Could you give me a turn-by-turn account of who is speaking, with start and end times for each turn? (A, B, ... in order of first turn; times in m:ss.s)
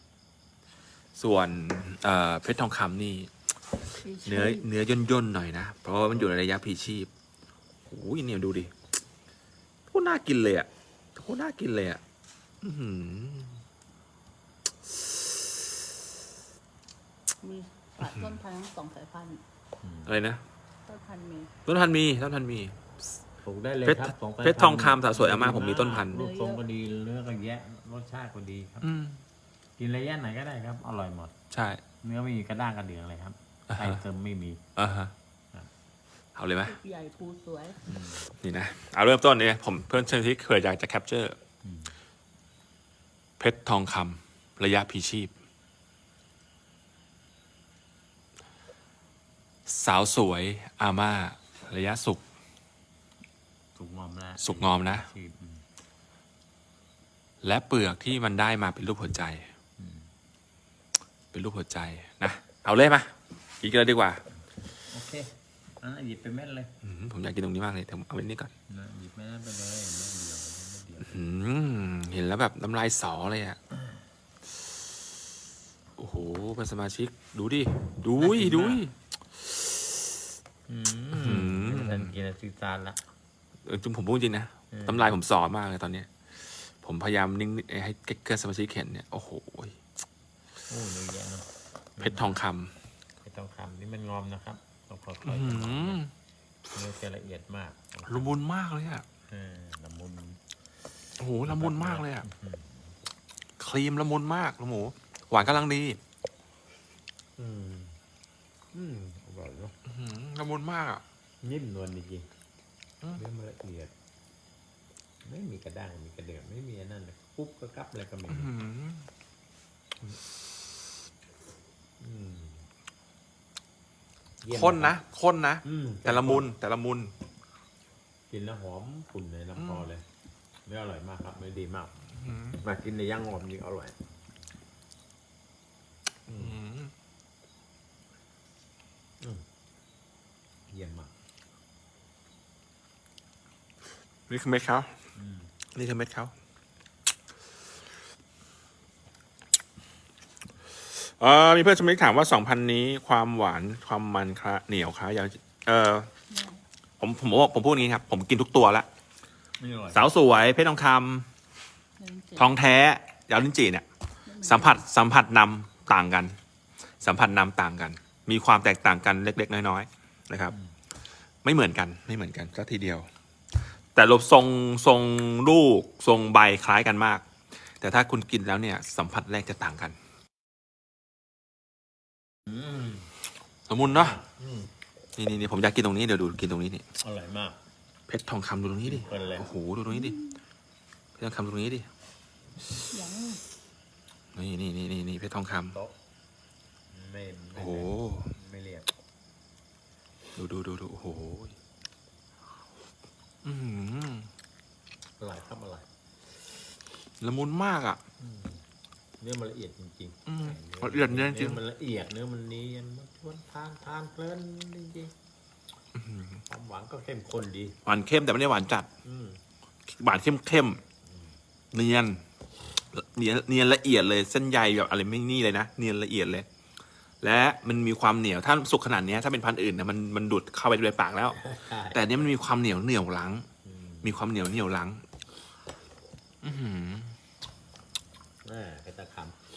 0:01.1-0:03.3 A
0:03.9-0:04.6 B
0:04.2-0:07.1 A
0:07.8-0:08.7 A
0:09.9-0:12.0 A
0:12.6-0:13.6 A
0:17.4-0:19.4 B
0:19.8-0:20.1 C
0:20.0-0:20.4 A
0:20.8-0:21.5 B
0:21.6-0:23.0 A
0:23.4-0:28.9 C
0:23.8-0:26.2 A
0:26.0-0:26.6 B
0:28.8-0:29.2 A
0:29.8-0:31.3 C
0:31.5-0:31.8 A
0:32.0-0:34.6 C
0:33.7-0:34.0 A
0:34.8-0:35.1 A
0:36.4-0:36.7 A
0:36.6-0:37.9 B
0:37.8-0:38.2 C
0:38.3-0:41.4 A
0:41.6-0:41.9 C
0:43.4-0:45.3 A
0:49.7-0:52.2 A
0:53.8-0:55.6 C
0:54.4-0:55.0 A
0:57.4-0:59.5 A
0:59.8-1:00.1 C
1:01.3-1:04.2 A
1:04.9-1:06.7 C
1:06.8-1:08.5 A
1:08.7-1:11.2 C
1:11.0-1:13.6 A
1:16.0-1:18.9 A
1:18.2-1:18.8 C
1:20.7-1:23.0 C
1:21.1-1:22.1 A
1:23.6-1:26.1 A
1:24.7-1:25.1 C
1:26.8-1:29.8 A
1:30.7-1:32.4 C
1:32.0-1:32.7 A
1:33.2-1:36.0 C
1:35.2-1:36.1 A
1:36.7-1:38.4 C
1:38.1-1:39.0 A
1:39.3-1:40.4 C
1:41.2-1:42.2 A
1:41.4-1:42.9 C
1:43.6-1:46.0 A
1:47.4-1:48.0 C
1:48.7-1:49.7 C
1:49.8-1:51.0 A
1:51.4-1:52.3 C
1:53.1-1:53.9 C
1:55.2-1:58.5 C
1:58.3-1:59.0 A
2:02.0-2:02.7 C
2:04.4-2:05.0 C
2:04.5-2:07.1 A
2:05.6-2:06.5 C
2:08.3-2:10.0 C
2:09.6-2:09.8 A
2:10.6-2:11.9 C
2:12.2-2:12.6 A
2:12.6-2:14.0 C
2:16.3-2:16.6 C
2:16.3-2:16.9 A
2:20.7-2:21.1 C
2:24.3-2:24.9 A
2:25.2-2:25.5 C
2:25.7-2:26.3 A
2:30.9-2:36.1 A
2:36.3-2:36.6 B
2:37.0-2:38.9 A
2:39.6-2:40.1 C
2:39.9-2:41.3 A
2:42.0-2:42.6 B
2:42.4-2:43.8 A
2:44.2-2:44.8 B
2:44.4-2:46.4 A
2:47.0-2:50.5 A
2:51.4-2:53.1 A
2:53.9-2:57.2 A
2:57.8-3:00.0 A
3:02.4-3:03.1 C
3:03.7-3:04.2 A
3:03.8-3:04.7 C
3:05.2-3:06.8 A
3:07.0-3:07.6 C
3:08.1-3:10.2 A
3:08.8-3:09.5 C
3:09.9-3:10.4 B
3:11.2-3:11.9 A
3:12.9-3:13.4 B
3:14.3-3:15.8 A
3:16.9-3:18.9 C
3:17.6-3:18.3 A
3:20.4-3:21.5 A
3:23.4-3:24.3 A
3:25.2-3:25.9 C
3:27.2-3:28.0 A
3:28.2-3:28.6 C
3:29.2-3:35.1 C
3:30.2-3:31.6 A
3:35.9-3:36.4 A
3:36.5-3:37.8 C
3:37.8-3:38.9 A
3:39.0-3:39.4 C
3:39.9-3:40.8 A
3:41.0-3:41.3 C
3:41.7-3:42.2 A
3:42.9-3:46.5 A
3:47.2-3:53.5 A
3:51.4-3:52.2 C
3:53.6-3:54.2 C
3:54.0-3:55.0 A
3:56.4-3:57.1 A
3:58.4-3:59.4 C